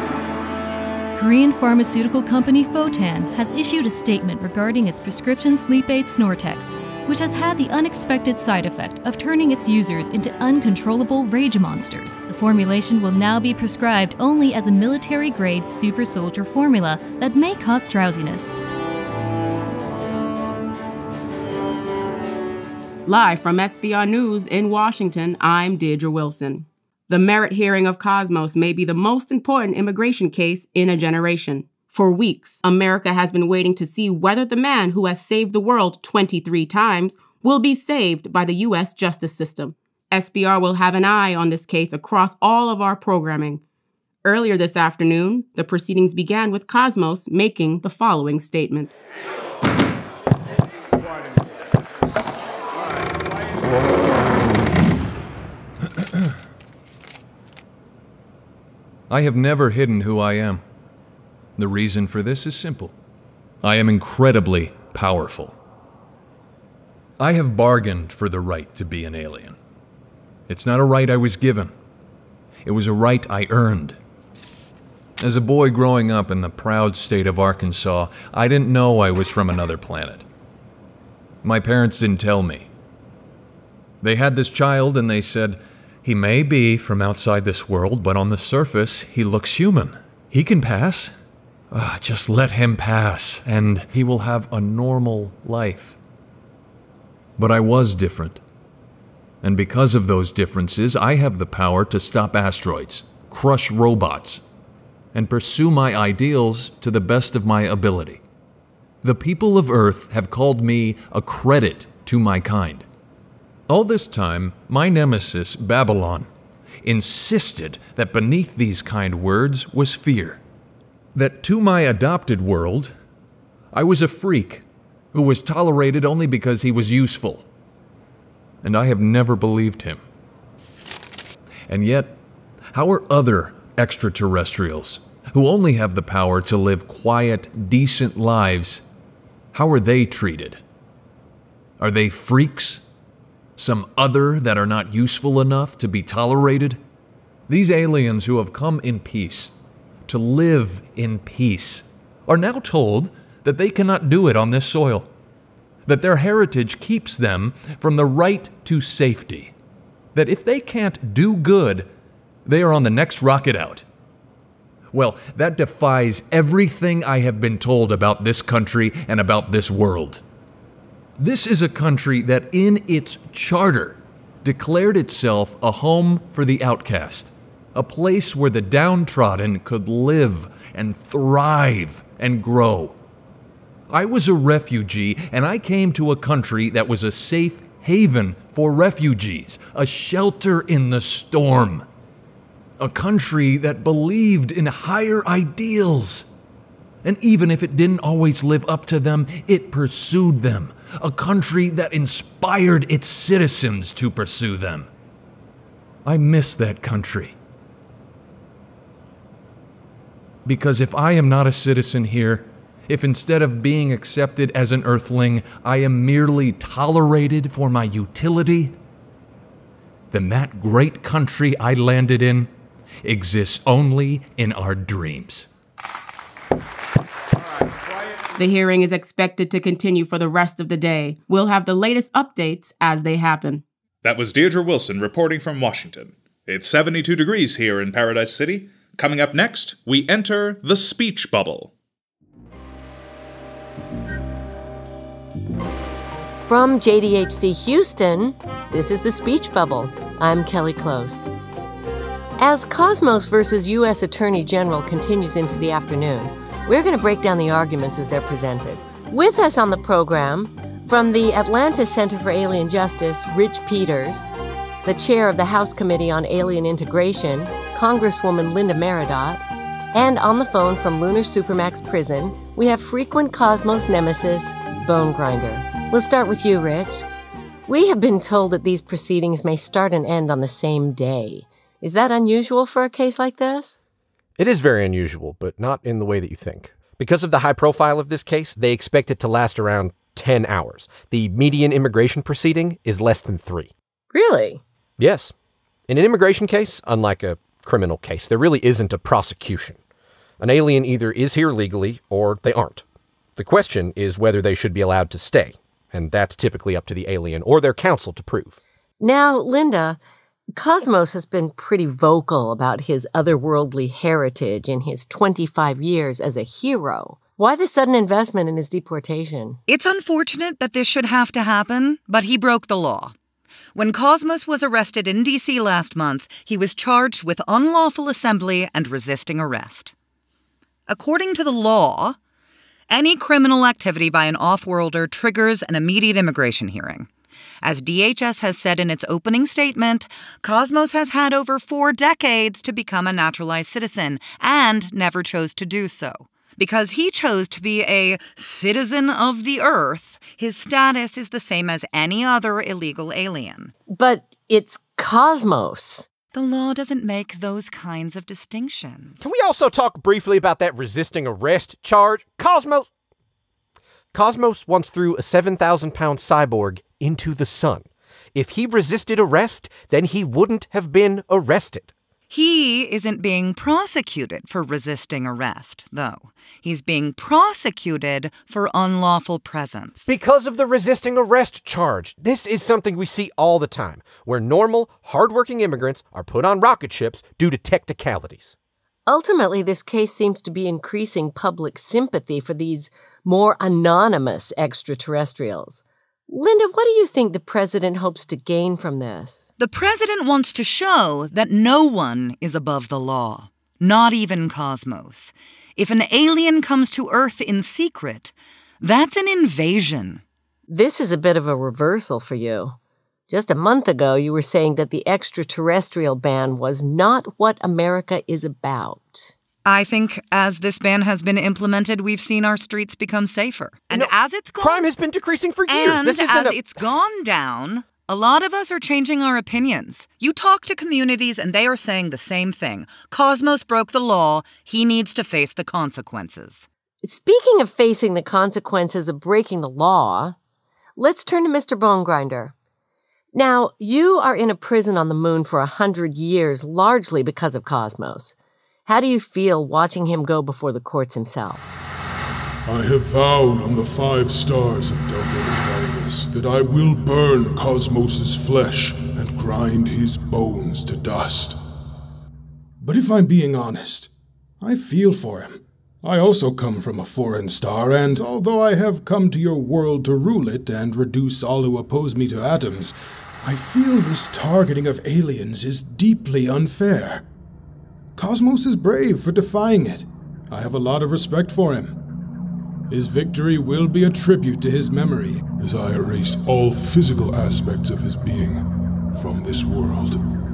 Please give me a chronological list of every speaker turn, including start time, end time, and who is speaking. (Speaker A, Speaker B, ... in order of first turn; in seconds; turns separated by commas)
Speaker A: 1.1-18.6, Speaker B: 23.1-43.6, Speaker B: 44.2-48.9, Speaker C: 59.1-60.6, Speaker C: 61.6-63.0, Speaker C: 63.6-65.6, Speaker C: 67.2-69.6, Speaker C: 70.5-71.7, Speaker C: 72.7-74.0, Speaker C: 75.2-80.2, Speaker C: 81.4-82.7, Speaker C: 84.0-91.1, Speaker C: 91.7-96.0, Speaker C: 97.4-98.4, Speaker C: 99.4-104.4, Speaker C: 105.1-108.2, Speaker C: 109.0-112.9, Speaker C: 113.7-116.3, Speaker C: 116.8-120.4, Speaker C: 121.2-122.9, Speaker C: 123.7-127.5, Speaker C: 128.6-130.0, Speaker C: 131.7-132.2, Speaker C: 132.7-138.8, Speaker C: 139.5-140.6, Speaker C: 141.8-142.8, Speaker C: 143.6-146.8, Speaker C: 147.5-149.5, Speaker C: 150.1-155.1, Speaker C: 155.9-159.5, Speaker C: 160.2-161.9, Speaker C: 162.5-163.8, Speaker C: 164.9-170.2, Speaker C: 171.2-183.0, Speaker C: 183.9-191.8, Speaker C: 192.8-196.3, Speaker C: 197.0-204.9, Speaker C: 206.1-207.4, Speaker C: 210.5-218.8, Speaker C: 220.1-222.5, Speaker C: 223.0-225.5, Speaker B: 228.4-233.6, Speaker D: 234.0-241.7, Speaker E: 246.4-251.3, Speaker E: 252.4-264.3, Speaker E: 264.9-277.1, Speaker E: 277.7-283.8, Speaker F: 284.4-293.7, Speaker E: 294.1-294.6, Speaker F: 295.0-295.3, Speaker F: 295.9-299.8, Speaker F: 300.4-302.9, Speaker F: 303.4-308.6, Speaker E: 309.0-310.0, Speaker E: 310.6-319.6, Speaker G: 319.7-323.1, Speaker G: 323.8-329.9, Speaker G: 330.9-332.2, Speaker G: 332.9-337.1, Speaker G: 337.6-353.7, Speaker E: 353.9-356.1, Speaker G: 356.3-359.3, Speaker F: 359.2-362.9, Speaker F: 364.1-371.9, Speaker G: 372.3-380.1, Speaker F: 380.1-388.5, Speaker E: 389.1-399.5, Speaker G: 399.6-410.2, Speaker E: 410.7-412.8, Speaker E: 413.3-419.3, Speaker G: 419.6-424.9, Speaker F: 423.9-426.9, Speaker G: 425.7-436.7, Speaker E: 437.0-440.4, Speaker E: 441.0-442.5, Speaker E: 443.3-448.4, Speaker E: 448.9-451.8, Speaker H: 452.7-461.6, Speaker H: 462.8-477.2, Speaker H: 478.2-482.0, Speaker H: 482.9-490.2